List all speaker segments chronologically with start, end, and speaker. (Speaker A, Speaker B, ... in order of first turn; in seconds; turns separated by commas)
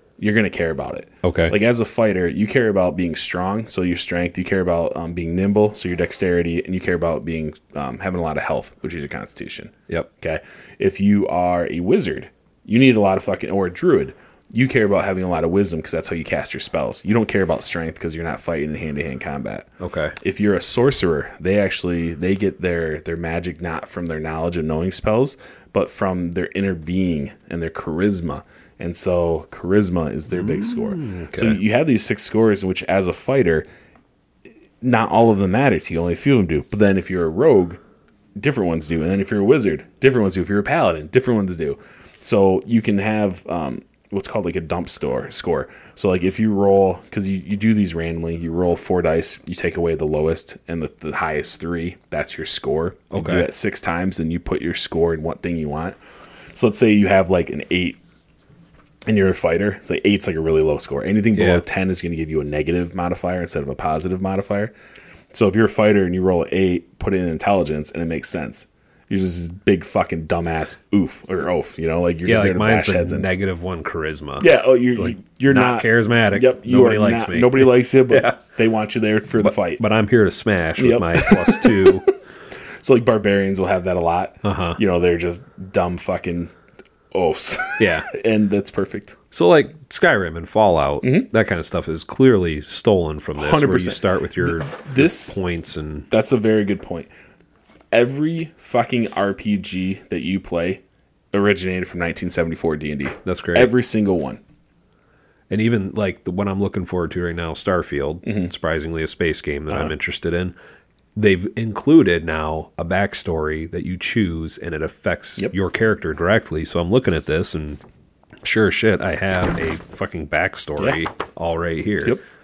Speaker A: 0.2-33.7, Speaker B: 1.2-1.6, Speaker B: 19.8-20.2, Speaker B: 30.3-31.6, Speaker A: 34.8-37.8, Speaker A: 38.4-56.0, Speaker B: 53.1-53.5, Speaker A: 56.5-58.0, Speaker A: 59.1-64.7, Speaker B: 61.4-61.6, Speaker A: 65.3-73.3, Speaker B: 72.3-78.4, Speaker A: 74.4-79.8, Speaker B: 79.4-82.1, Speaker A: 80.8-82.1, Speaker A: 82.8-86.5, Speaker B: 84.4-84.8, Speaker A: 87.1-89.2, Speaker B: 87.8-88.1, Speaker B: 89.3-96.1, Speaker A: 91.0-91.3, Speaker A: 93.4-95.4, Speaker A: 96.1-97.1, Speaker A: 97.9-104.4, Speaker B: 103.2-103.7, Speaker B: 105.5-110.5, Speaker A: 108.2-108.5, Speaker B: 111.2-117.8, Speaker B: 118.4-122.2